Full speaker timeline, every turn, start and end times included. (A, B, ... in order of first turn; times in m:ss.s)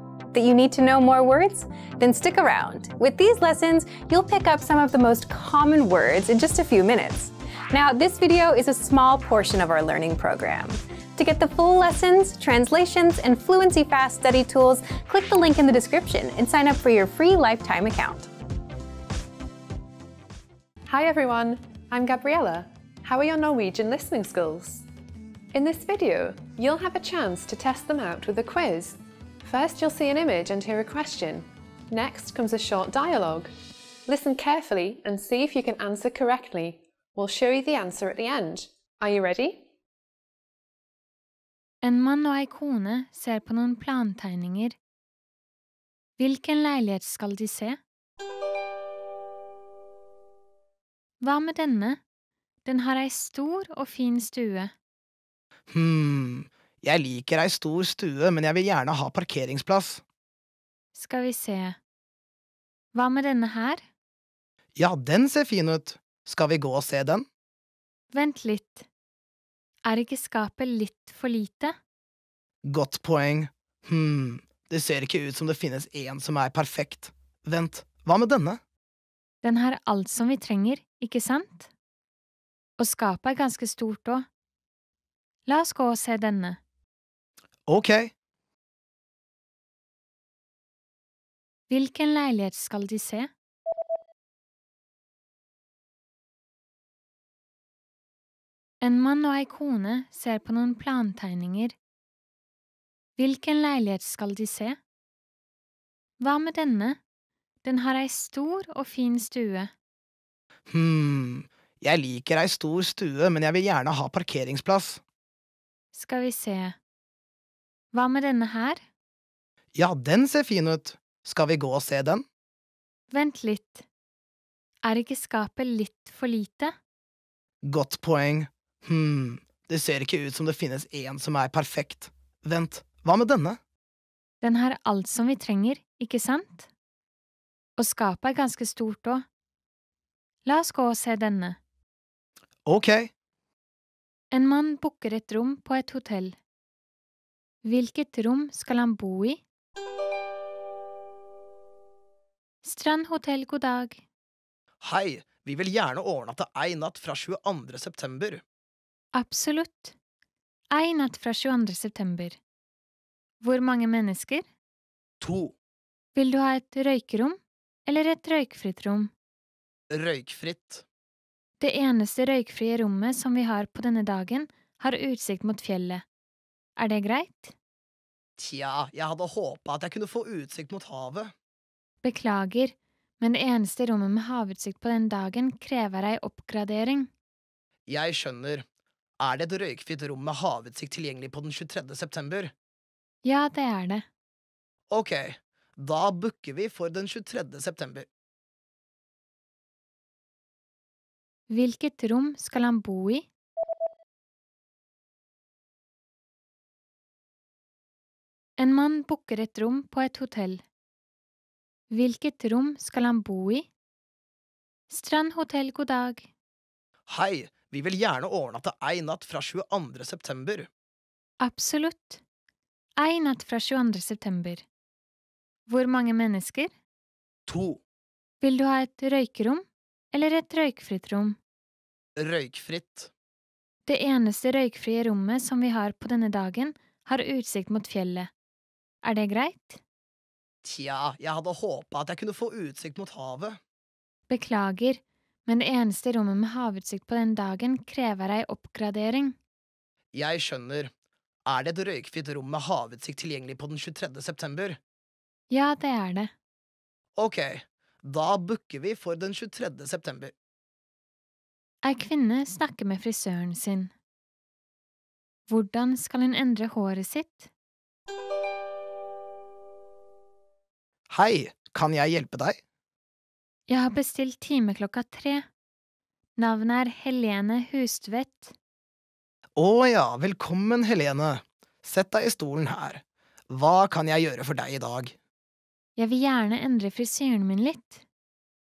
0:00.3-0:18.3 A
0:20.9-0:24.8 B
0:25.5-0:33.5 B
0:34.0-0:39.7 B
0:41.8-0:44.8 C
0:46.2-0:47.8 C
0:51.2-0:52.0 C
0:52.6-0:54.7 C
0:55.7-1:00.0 D
1:00.9-1:01.8 C
1:02.9-1:03.8 C
1:04.8-1:07.2 D
1:08.1-1:08.9 C
1:09.8-1:11.8 C
1:12.6-1:18.6 D
1:19.4-1:21.7 C
1:22.8-1:24.2 C
1:25.4-1:26.6 C
1:27.7-1:28.1 D
1:31.7-1:33.3 C
1:38.8-1:41.7 C
1:43.2-1:44.8 C
1:46.2-1:47.0 C
1:47.6-1:49.7 C
1:50.7-1:55.0 D
1:55.9-1:56.8 C
1:57.9-1:58.8 C
1:59.7-2:02.2 D
2:03.1-2:03.8 C
2:04.8-2:06.7 C
2:07.6-2:13.6 D
2:14.4-2:16.7 C
2:17.8-2:19.2 C
2:20.4-2:21.6 C
2:22.6-2:23.1 D
2:24.3-2:26.4 C
2:27.6-2:29.4 C
2:32.6-2:34.0 C
2:34.8-2:38.4 D
2:39.1-2:39.9 C
2:40.7-2:42.4 C
2:43.4-2:44.4 C
2:45.2-2:45.5 D
2:46.2-2:49.1 C
2:49.9-2:50.8 D
2:51.6-2:56.0 C
2:56.8-2:57.5 C
2:58.4-3:01.3 D
3:02.0-3:07.1 C
3:07.9-3:08.6 D
3:09.2-3:12.5 D
3:13.2-3:14.0 C
3:14.9-3:18.1 D
3:21.5-3:23.2 C
3:28.6-3:30.6 C
3:31.9-3:33.7 C
3:34.9-3:36.3 C
3:37.1-3:40.7 D
3:41.4-3:42.2 C
3:43.0-3:44.6 C
3:45.7-3:46.7 C
3:47.5-3:47.8 D
3:48.4-3:51.4 C
3:52.2-3:53.1 D
3:53.8-3:58.3 C
3:59.0-3:59.8 C
4:00.6-4:03.6 D
4:04.3-4:09.4 C
4:10.1-4:10.9 D
4:11.4-4:14.8 D
4:15.5-4:16.3 C
4:17.2-4:20.3 D
4:21.8-4:23.9 C
4:25.5-4:27.5 C
4:31.1-4:32.6 D
4:33.7-4:35.4 C
4:36.4-4:38.5 C
4:39.6-4:45.1 D
4:46.0-4:48.0 C